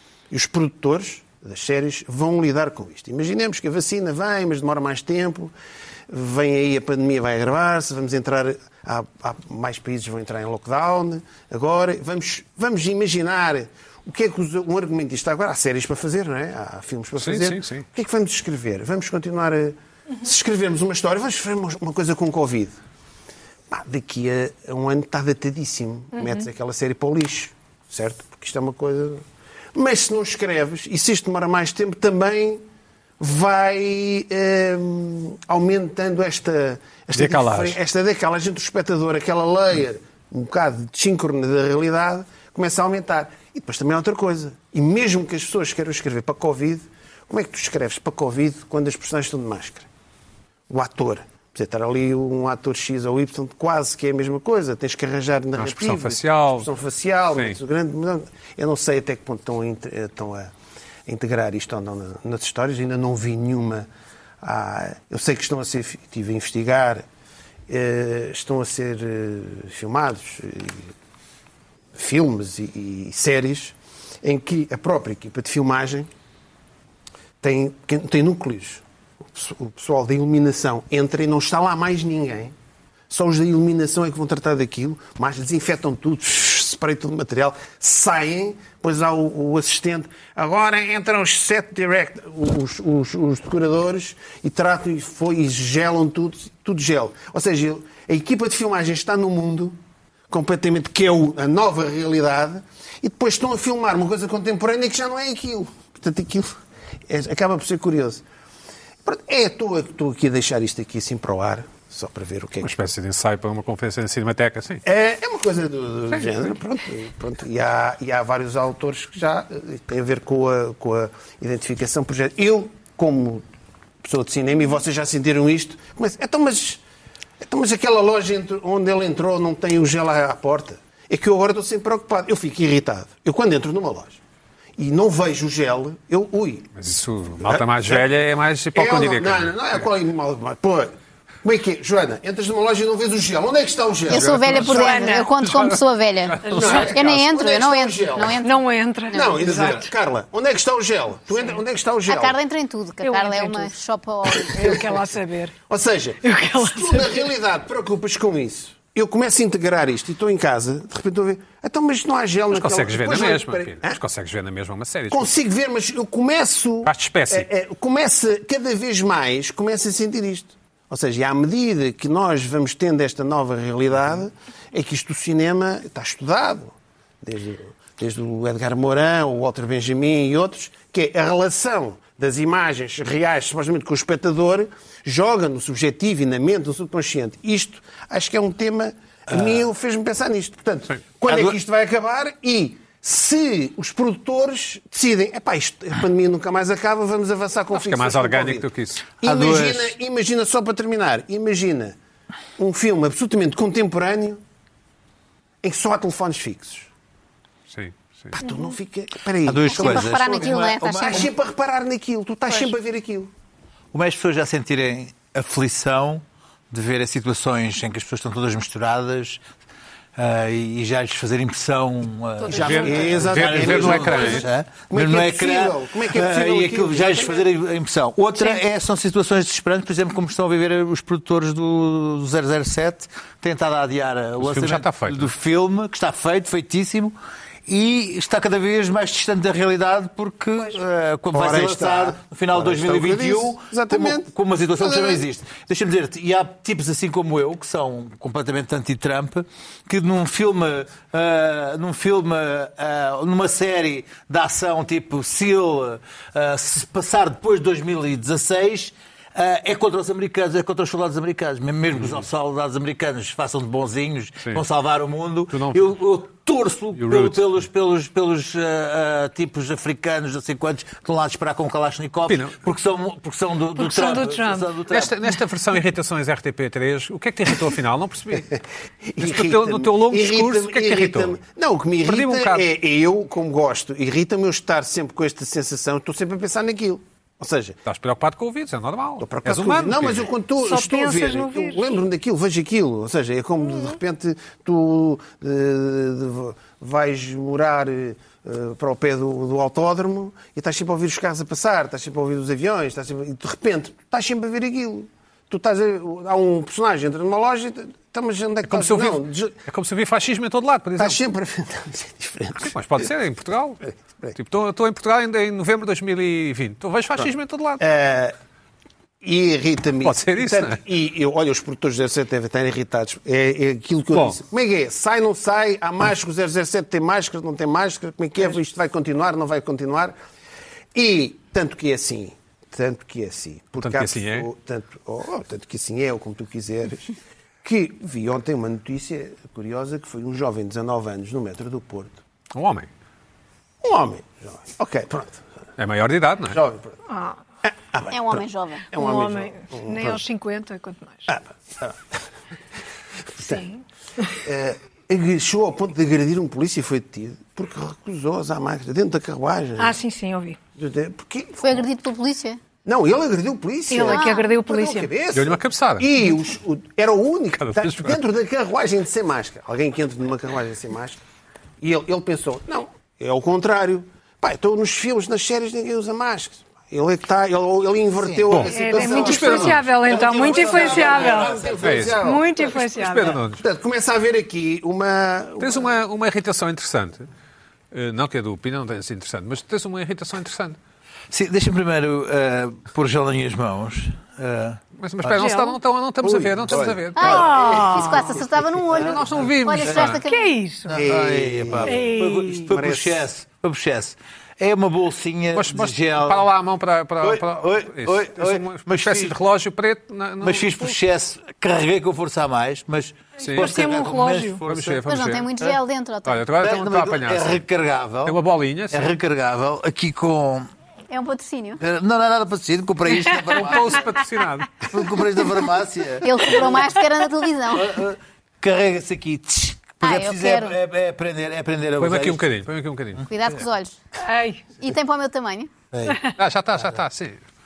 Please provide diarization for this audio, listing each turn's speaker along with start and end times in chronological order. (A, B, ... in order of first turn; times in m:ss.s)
0:00.3-0:05.5 A
0:06.1-0:22.8 A
0:17.2-0:17.8 B
0:23.7-0:32.6 A
0:26.2-0:26.4 C
0:33.2-0:49.9 A
0:37.2-0:37.8 B
0:50.7-1:00.5 A
0:55.6-0:56.7 B
1:01.1-1:03.9 A
1:04.4-1:07.0 A
1:07.7-1:10.9 A
1:11.9-1:16.1 A
1:17.4-1:22.5 A
1:23.1-1:39.8 A
1:40.3-1:48.2 A
1:49.0-1:52.8 A
1:52.6-1:54.8 B
1:54.8-2:03.5 A
2:04.0-2:06.8 A
2:07.4-2:14.2 A
2:14.8-2:16.8 A
2:16.8-2:19.8 B
2:17.4-2:18.0 A
2:18.7-2:25.0 A
2:24.1-2:28.6 D
2:24.4-2:24.8 B
2:24.7-2:25.3 C
2:25.4-2:25.8 B
2:26.4-2:27.0 C
2:26.5-2:28.4 A
2:28.4-2:29.8 C
2:29.1-2:32.4 A
2:32.1-2:34.8 D
2:33.0-2:33.7 C
2:34.4-2:35.5 C
2:35.7-2:44.0 A
2:36.2-2:37.3 C
2:42.5-2:45.3 B
2:45.1-3:22.0 A
2:46.8-2:47.5 B
3:11.0-3:11.6 B
3:17.7-3:19.0 B
3:19.2-3:19.9 E
3:22.6-3:24.4 A
3:25.6-3:26.9 A
3:27.7-3:28.3 B
3:28.3-3:33.3 A
3:29.4-3:31.3 E
3:29.7-3:31.3 D
3:33.9-3:39.4 E
3:40.2-3:57.2 E
3:42.5-3:47.5 A
3:42.5-3:44.5 B
3:54.4-3:55.3 B
3:57.7-4:35.2 E
4:01.3-4:05.2 A
4:25.5-4:26.0 B
4:27.0-4:27.6 B
4:32.3-4:32.6 B
4:33.8-4:34.7 C
4:34.9-4:38.5 B
4:38.5-4:47.8 A
4:39.2-4:41.4 B
4:42.0-4:42.7 B
4:47.8-4:50.3 B
4:49.2-5:09.6 A
4:50.6-4:51.9 C
5:08.7-5:11.2 B
5:11.0-5:13.1 A
5:12.6-5:13.8 B
5:13.8-5:14.4 A
5:14.3-5:17.8 B
5:17.2-5:18.3 A
5:19.2-5:30.2 A
5:20.0-5:20.8 B
5:24.1-5:24.4 B
5:30.9-5:42.2 A
5:33.8-5:34.5 B
5:42.6-5:42.9 B
5:43.8-5:45.4 A
5:45.8-5:46.6 B
5:46.5-5:47.0 A
5:47.1-5:47.4 C
5:47.6-5:50.2 A
5:48.1-5:48.9 D
5:48.9-5:51.4 C
5:51.3-5:52.2 A
5:53.4-5:53.8 C
5:54.4-6:00.0 A
5:59.8-6:00.6 C
6:00.8-6:01.8 A
6:01.6-6:02.6 D
6:02.8-6:11.2 A
6:03.9-6:05.1 C
6:04.0-6:04.5 D
6:05.3-6:06.1 B
6:07.6-6:08.2 B
6:11.8-6:22.9 A
6:18.2-6:21.8 E
6:18.5-6:19.8 B
6:18.7-6:21.5 C
6:21.8-6:22.2 B
6:22.1-6:23.4 C
6:22.9-6:23.6 B
6:23.5-6:26.0 A
6:25.6-6:27.3 B
6:27.9-6:30.8 B
6:31.3-6:35.4 E
6:35.0-6:37.4 B
6:35.4-6:35.8 C
6:36.3-6:36.9 E
6:36.6-6:38.1 A
6:37.2-6:40.6 D
6:37.2-6:38.3 C
6:37.5-6:40.2 E
6:39.0-6:40.2 B
6:40.3-6:41.0 C
6:40.9-6:46.5 E
6:41.0-6:42.1 A
6:41.8-6:42.7 C
6:42.6-6:43.3 A
6:45.5-6:51.0 B
6:47.2-6:49.4 E
6:50.4-6:55.0 E
6:53.4-6:53.7 B
6:53.4-6:54.6 C
6:54.7-6:55.5 B
6:55.1-6:56.5 D
6:56.3-6:57.6 B
6:56.6-7:00.7 E
6:58.2-6:59.1 B
7:01.1-7:01.8 D
7:01.8-7:04.1 E
7:03.5-7:04.9 B
7:04.8-7:06.9 E
7:06.2-7:08.0 D
7:07.7-7:12.4 E
7:10.0-7:10.8 D
7:12.0-7:13.3 B
7:13.3-7:14.0 D
7:14.2-7:14.7 C
7:14.8-7:15.7 D
7:15.9-7:16.2 E
7:16.4-7:17.4 B